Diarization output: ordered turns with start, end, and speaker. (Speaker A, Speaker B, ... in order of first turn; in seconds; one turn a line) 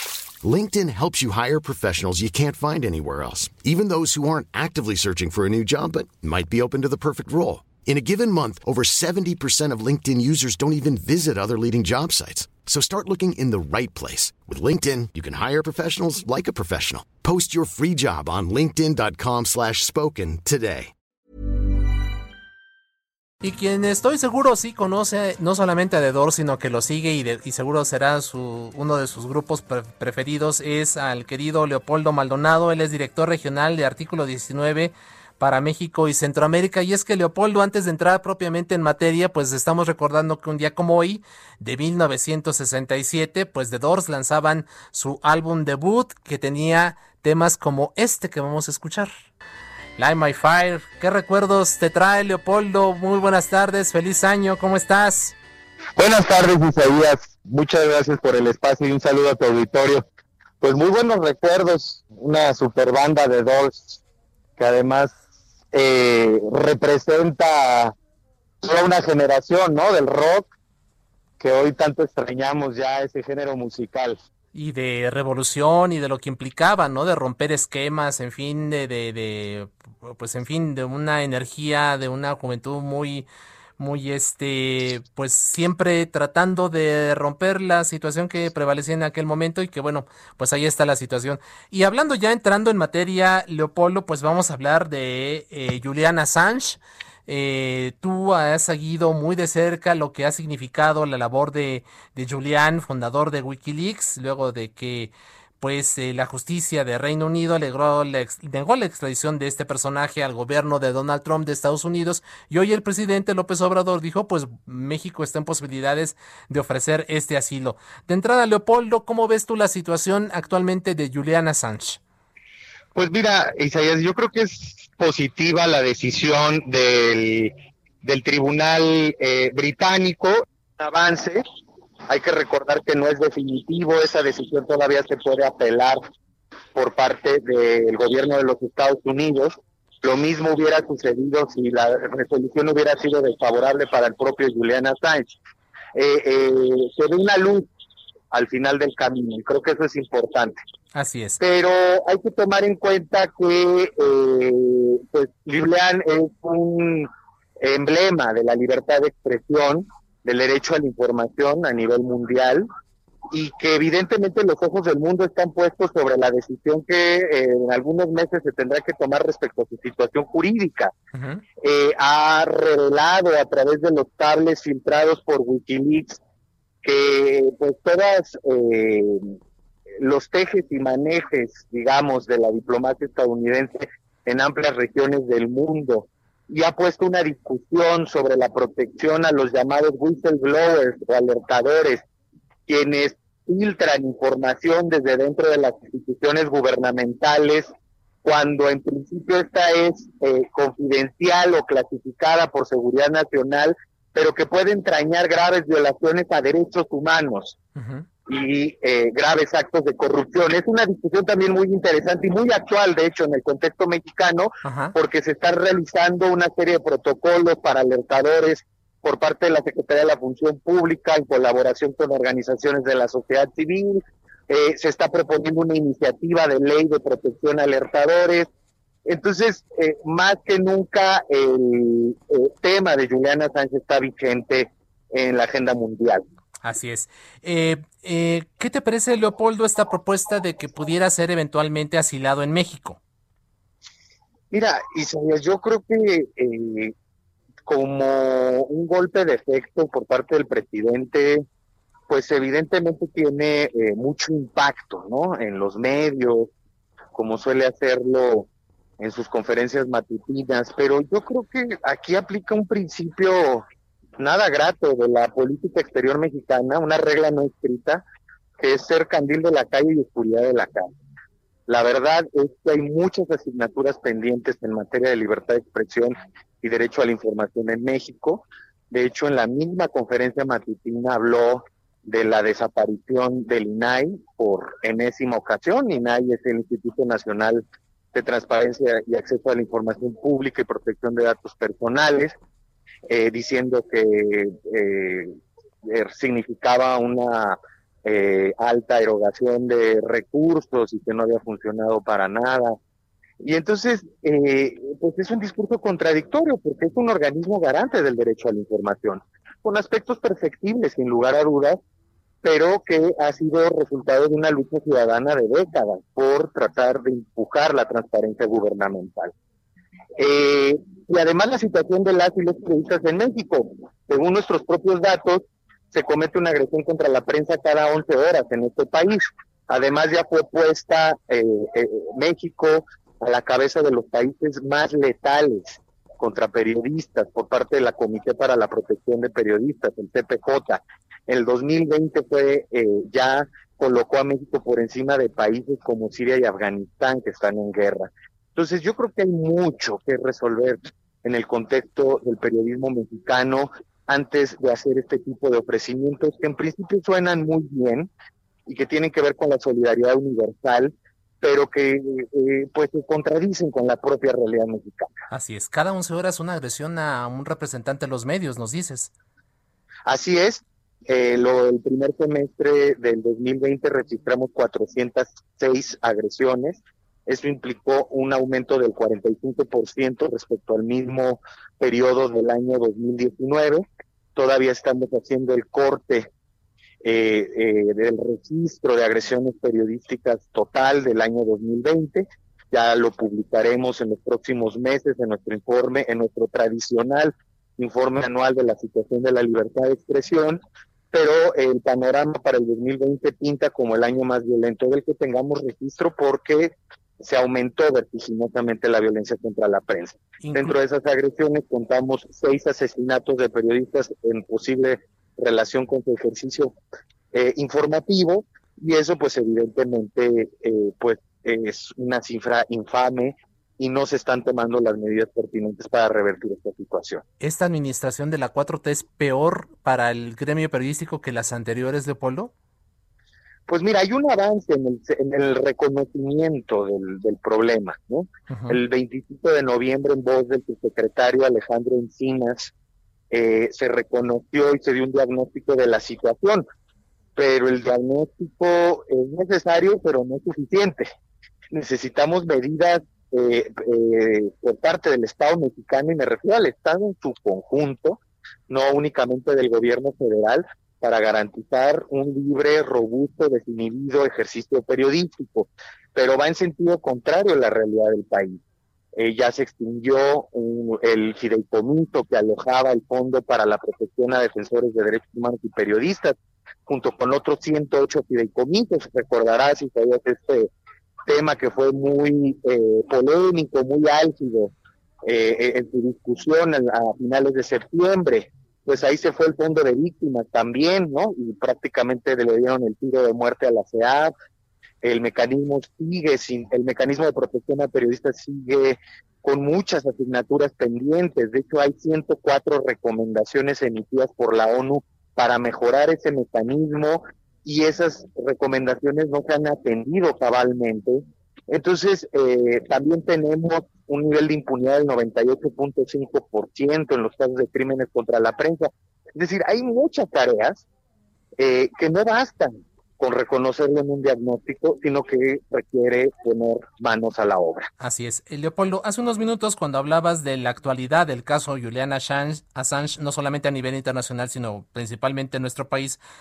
Speaker A: 0.4-20.9
Speaker B: 23.4-49.1
Speaker B: 50.0-55.3
Speaker C: 56.0-60.0
Speaker C: 60.6-64.0
Speaker C: 64.6-65.1
Speaker C: 65.7-67.9
Speaker C: 68.6-70.5
Speaker C: 71.4-74.2
Speaker B: 74.5-83.3
Speaker B: 83.8-122.0
Speaker C: 122.9-131.4
Speaker C: 132.1-136.0
Speaker C: 136.7-145.3
Speaker C: 145.9-147.7
Speaker C: 148.3-150.6
Speaker B: 150.9-151.4
Speaker C: 151.4-157.1
Speaker C: 157.6-162.7
Speaker C: 163.3-170.9
Speaker B: 171.1-171.4
Speaker C: 171.6-176.2
Speaker C: 176.8-179.3
Speaker C: 180.0-192.0
Speaker C: 192.7-197.7
Speaker C: 198.2-207.6
Speaker B: 207.8-208.1
Speaker C: 208.3-228.5
Speaker B: 214.6-214.9
Speaker C: 229.0-236.2
Speaker B: 236.6-243.0
Speaker C: 244.5-246.9
Speaker C: 247.7-251.4
Speaker C: 252.1-256.5
Speaker C: 257.1-258.5
Speaker C: 259.0-263.6
Speaker C: 264.2-268.0
Speaker C: 268.6-270.9
Speaker C: 271.7-287.6
Speaker C: 288.1-292.4
Speaker C: 293.1-295.3
Speaker C: 295.9-302.8
Speaker C: 303.4-311.8
Speaker C: 312.4-319.3
Speaker C: 320.2-358.1
Speaker C: 358.7-365.1
Speaker B: 365.3-369.1
Speaker C: 370.1-386.3
Speaker C: 387.0-400.6
Speaker C: 401.1-416.7
Speaker B: 410.4-410.8
Speaker C: 417.3-427.2
Speaker B: 427.4-432.5
Speaker C: 433.7-442.7
Speaker B: 438.5-438.8
Speaker C: 443.3-446.6
Speaker C: 447.4-451.1
Speaker C: 451.7-468.6
Speaker C: 469.1-476.3
Speaker C: 476.9-480.7
Speaker C: 481.2-484.7
Speaker C: 485.2-494.3
Speaker C: 495.0-520.8
Speaker C: 521.6-527.9
Speaker B: 528.0-536.2